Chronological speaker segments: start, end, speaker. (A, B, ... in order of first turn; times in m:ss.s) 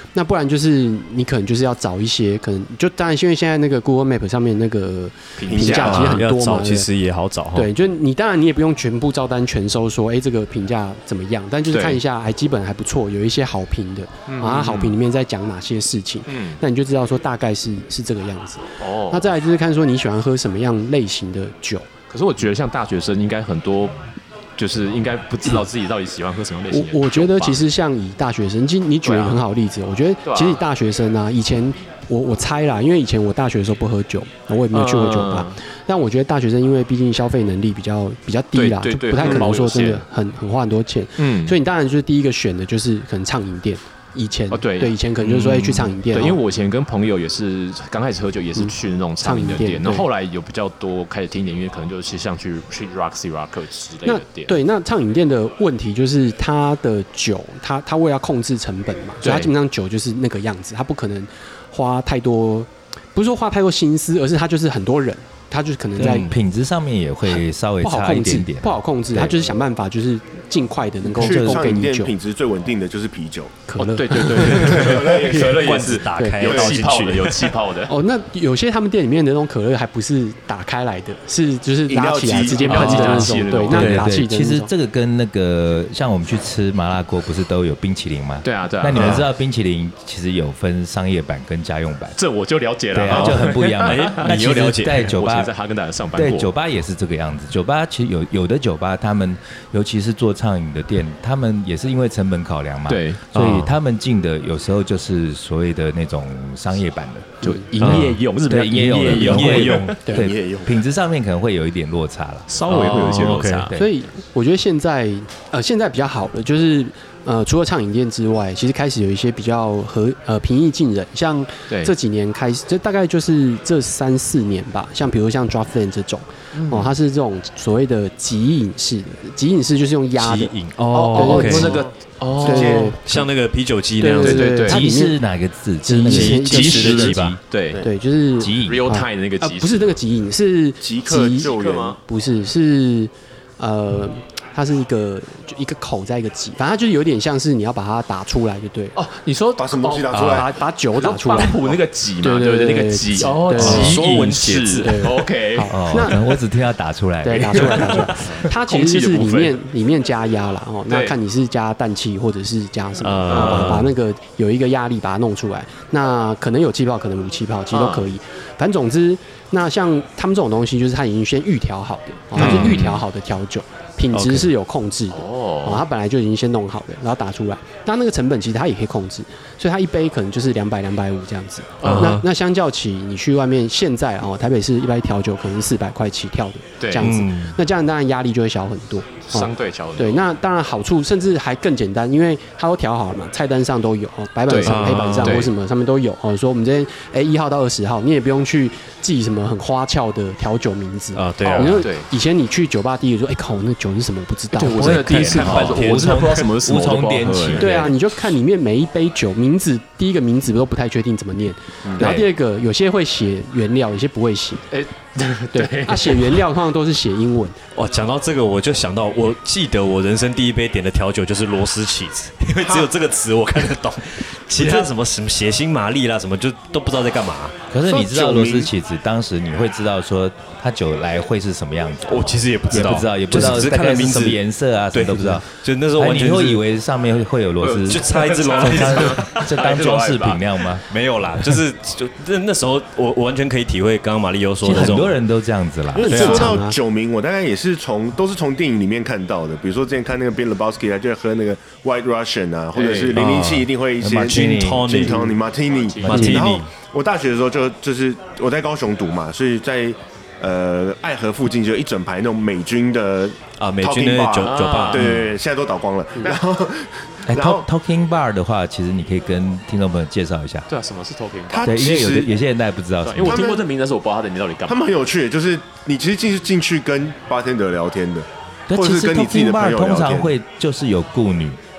0:00.1-0:06.9 A
0:05.4-0:06.2 B
0:05.5-0:06.2 C
0:05.7-0:07.7 D
0:07.6-0:21.9 A
0:11.7-0:12.0 B
0:14.3-0:15.0 B
0:16.3-0:16.6 B
0:18.8-0:19.3 B
0:22.1-0:24.0 B
0:24.6-0:27.6 B
0:26.7-0:46.4 A
0:29.0-0:29.4 B
0:30.2-0:30.6 B
0:34.7-0:35.6 B
0:38.5-0:40.0 B
0:41.2-0:41.6 B
0:44.5-0:54.6 B
0:48.6-0:50.1 A
0:54.0-1:06.3 A
0:59.2-0:59.5 B
1:06.0-1:06.4 D
1:06.0-1:09.5 E
1:07.3-1:12.1 A
1:11.1-1:13.6 C
1:11.2-1:11.7 E
1:13.7-1:15.4 A
1:13.8-1:17.9 B
1:14.5-1:17.6 D
1:14.6-1:15.9 C
1:16.2-1:16.4 A
1:16.4-1:16.8 C
1:17.9-1:24.7 A
1:21.9-1:23.2 C
1:22.6-1:24.0 B
1:22.7-1:24.1 D
1:23.7-1:32.2 E
1:28.4-1:29.3 B
1:28.9-1:29.2 D
1:32.2-1:36.5 B
1:32.9-1:35.5 E
1:33.1-1:35.2 D
1:36.1-1:52.5 E
1:42.9-1:43.3 B
1:43.3-1:43.8 D
1:47.4-1:50.0 B
1:47.8-1:48.2 D
1:49.0-1:50.0 D
1:50.0-1:50.3 A
1:50.1-1:50.7 C
1:52.5-1:53.8 B
1:52.7-1:53.7 D
1:53.7-2:11.9 A
2:01.7-2:01.9 B
2:06.5-2:06.9 B
2:10.2-2:11.8 D
2:11.1-2:13.0 B
2:12.4-2:13.0 A
2:12.8-2:14.6 D
2:14.0-2:15.2 A
2:14.2-2:14.8 B
2:14.6-2:17.4 E
2:15.8-2:17.2 A
2:16.0-2:17.4 D
2:16.5-2:17.9 B
2:17.8-2:29.0 A
2:18.4-2:18.8 E
2:18.6-2:20.0 B
2:20.8-2:22.0 C
2:21.4-2:22.0 B
2:29.0-2:30.4 B
2:29.6-2:30.5 C
2:29.8-2:31.6 A
2:31.0-2:35.7 B
2:32.2-2:34.2 A
2:33.5-2:35.1 D
2:34.7-2:36.2 A
2:35.7-2:38.0 E
2:37.2-3:25.7 A
2:37.4-2:39.6 B
2:40.9-2:41.2 B
2:43.0-2:43.9 D
2:43.3-2:43.8 B
2:47.7-2:48.1 B
2:52.4-2:53.0 B
2:52.4-2:52.9 D
2:54.1-2:54.5 D
2:55.1-2:55.8 B
3:01.8-3:02.2 B
3:01.8-3:02.2 D
3:06.8-3:07.1 B
3:07.0-3:07.6 D
3:09.3-3:10.3 B
3:14.5-3:15.5 B
3:14.6-3:15.5 D
3:21.2-3:21.9 D
3:21.4-3:22.1 B
3:24.5-3:28.0 B
3:24.8-3:27.8 E
3:24.8-3:26.5 D
3:27.6-3:34.7 A
3:34.7-3:36.4 B
3:35.5-3:37.6 A
3:37.8-3:47.6 D
3:47.7-3:58.1 E
3:47.8-3:48.7 C
3:52.1-3:56.6 D
3:57.6-4:00.4 B
3:57.8-3:59.6 D
3:58.6-4:00.8 E
4:00.8-4:05.2 D
4:04.6-4:06.2 E
4:06.0-4:06.8 A
4:06.0-4:27.6 C
4:06.1-4:06.6 D
4:12.7-4:13.2 B
4:13.1-4:13.7 D
4:14.0-4:15.0 E
4:14.2-4:15.4 D
4:15.6-4:16.4 B
4:16.0-4:16.5 E
4:16.0-4:16.7 D
4:23.6-4:25.2 D
4:24.4-4:25.1 B
4:27.3-4:30.7 E
4:30.7-4:31.7 B
4:31.5-4:32.3 C
4:31.6-4:33.4 E
4:33.0-4:34.8 B
4:33.2-4:33.7 C
4:34.7-4:40.3 C
4:38.7-4:41.6 E